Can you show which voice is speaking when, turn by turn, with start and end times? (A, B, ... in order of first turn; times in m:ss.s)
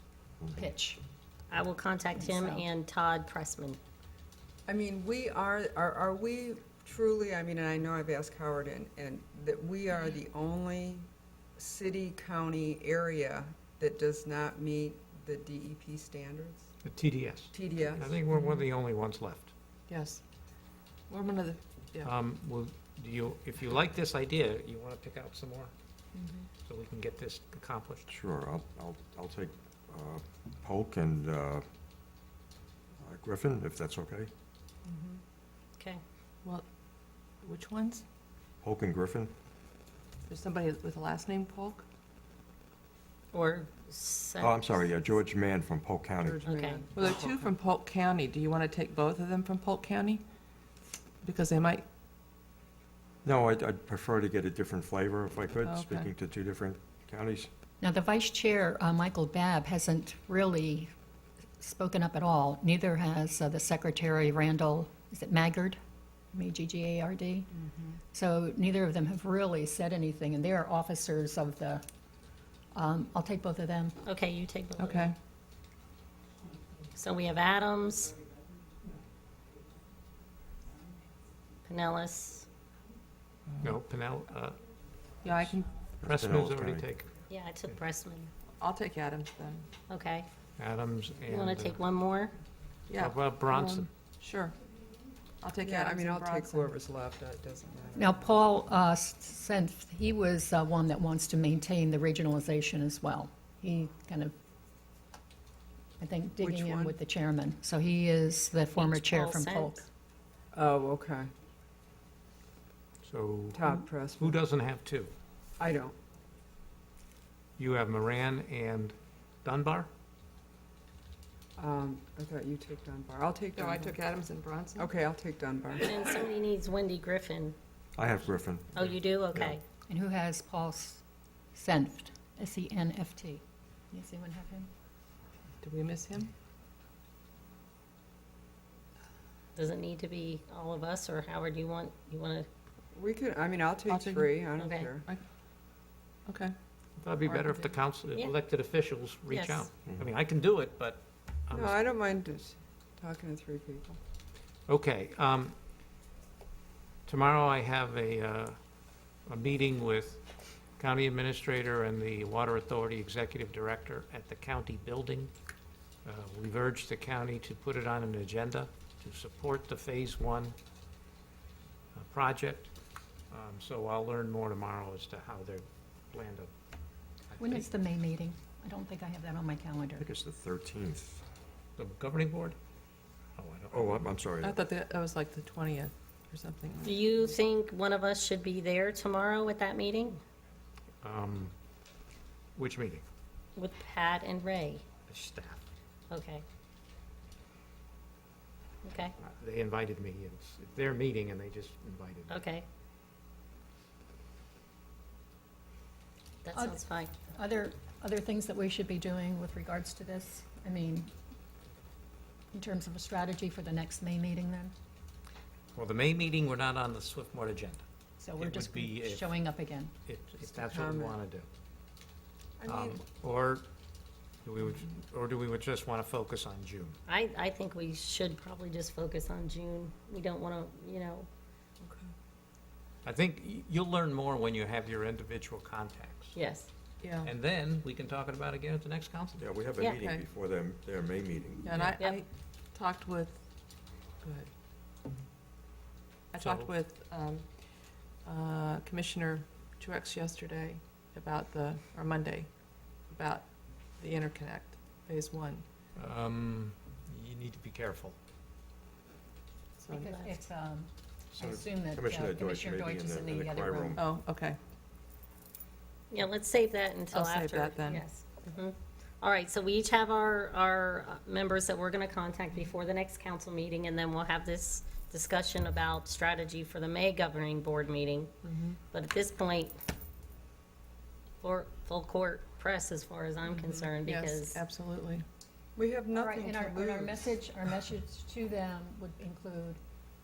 0:00.5-0:01.0 A
0:01.5-0:03.8 B
0:02.1-0:02.6 A
0:04.7-0:16.7 C
0:16.8-0:19.5 D
0:17.5-0:18.2 C
0:18.3-0:18.6 E
0:19.9-0:20.2 E
0:21.1-0:22.1 E
0:22.0-0:25.7 D
0:26.6-0:28.0 D
0:28.1-0:31.6 F
0:33.0-0:34.3 F
0:37.4-0:38.0 E
0:38.6-0:39.3 F
0:40.3-0:41.8 E
0:43.3-0:45.0 B
0:44.4-0:46.4 F
0:46.2-0:47.5 C
0:46.5-0:46.8 B
0:46.9-0:50.2 E
0:51.2-0:51.8 E
0:53.2-0:57.5 F
0:55.6-0:56.1 E
0:57.8-1:00.9 A
1:01.6-1:05.8 A
1:06.3-1:07.5 A
1:08.1-1:11.8 A
1:12.7-1:14.0 A
1:14.0-1:15.1 B
1:14.8-1:15.1 E
1:17.0-1:18.2 B
1:21.6-1:22.5 B
1:23.5-1:23.7 E
1:23.6-1:24.6 D
1:25.2-1:25.7 E
1:26.0-1:26.8 F
1:26.0-1:27.2 D
1:27.3-1:28.3 B
1:28.6-1:29.7 E
1:29.9-1:30.3 B
1:30.6-1:31.8 D
1:31.3-1:32.3 B
1:32.9-1:34.5 E
1:33.0-1:33.9 D
1:35.4-1:36.8 E
1:35.6-1:38.2 C
1:38.0-1:44.3 A
1:46.0-1:49.8 A
1:46.4-1:47.0 C
1:48.7-1:49.8 B
1:50.5-1:51.3 C
1:53.0-1:55.1 D
1:53.5-1:54.4 C
1:55.6-1:55.9 C
1:57.6-1:59.9 D
2:01.6-2:04.0 C
2:03.5-2:04.9 E
2:04.8-2:05.9 C
2:05.8-2:07.6 B
2:08.0-2:08.7 F
2:08.7-2:09.6 B
2:09.9-2:14.7 A
2:15.6-2:16.3 E
2:19.5-2:22.5 B
2:22.9-2:25.1 C
2:23.9-2:24.4 E
2:24.6-2:24.9 B
2:26.3-2:26.5 E
2:27.0-2:31.8 D
2:27.2-2:27.7 C
2:29.3-2:29.7 B
2:31.5-2:34.0 C
2:34.7-2:35.5 D
2:37.0-2:38.6 D
2:39.2-2:40.2 D
2:40.8-2:45.3 D
2:46.0-2:50.6 D
2:52.0-2:52.7 D
2:53.3-2:56.5 D
2:57.3-2:57.7 D
2:57.4-3:00.0 A
3:00.0-3:01.2 F
3:01.8-3:02.6 D
3:03.4-3:04.1 D
3:03.7-3:04.6 F
3:04.4-3:07.0 E
3:06.8-3:10.2 B
3:11.0-3:11.5 D
3:12.6-3:13.0 D
3:13.6-3:14.9 B
3:15.1-3:15.6 D
3:16.1-3:16.4 B
3:18.8-3:19.1 B
3:19.2-3:22.5 D
3:22.3-3:22.6 B
3:26.4-3:27.1 B
3:26.5-3:31.1 A
3:32.5-3:34.7 A
3:35.7-3:37.8 D
3:38.2-3:39.9 A
3:38.4-3:39.4 D
3:40.0-3:41.5 D
3:40.4-3:41.2 C
3:42.6-3:43.0 C
3:42.7-3:43.6 D
3:44.4-3:47.0 D
3:47.1-3:51.3 B
3:51.8-3:52.1 C
3:53.0-3:56.4 D
3:56.3-3:56.7 B
3:57.0-3:57.3 E
3:57.2-3:59.4 D
3:59.4-4:01.7 F
4:00.0-4:00.2 E
4:01.6-4:03.4 E
4:02.0-4:02.2 B
4:04.2-4:04.5 E
4:06.3-4:15.6 E
4:06.4-4:06.7 D
4:16.0-4:18.2 D
4:19.8-4:20.2 E
4:19.9-4:24.0 A
4:21.4-4:24.0 F
4:24.0-4:24.6 E
4:26.1-4:38.3 B
4:27.1-4:28.0 E
4:38.4-4:38.8 E
4:38.9-4:39.7 B
4:41.4-4:44.6 B
4:43.6-4:43.9 C
4:44.0-4:45.2 E
4:45.8-4:47.3 C
4:46.1-4:49.8 A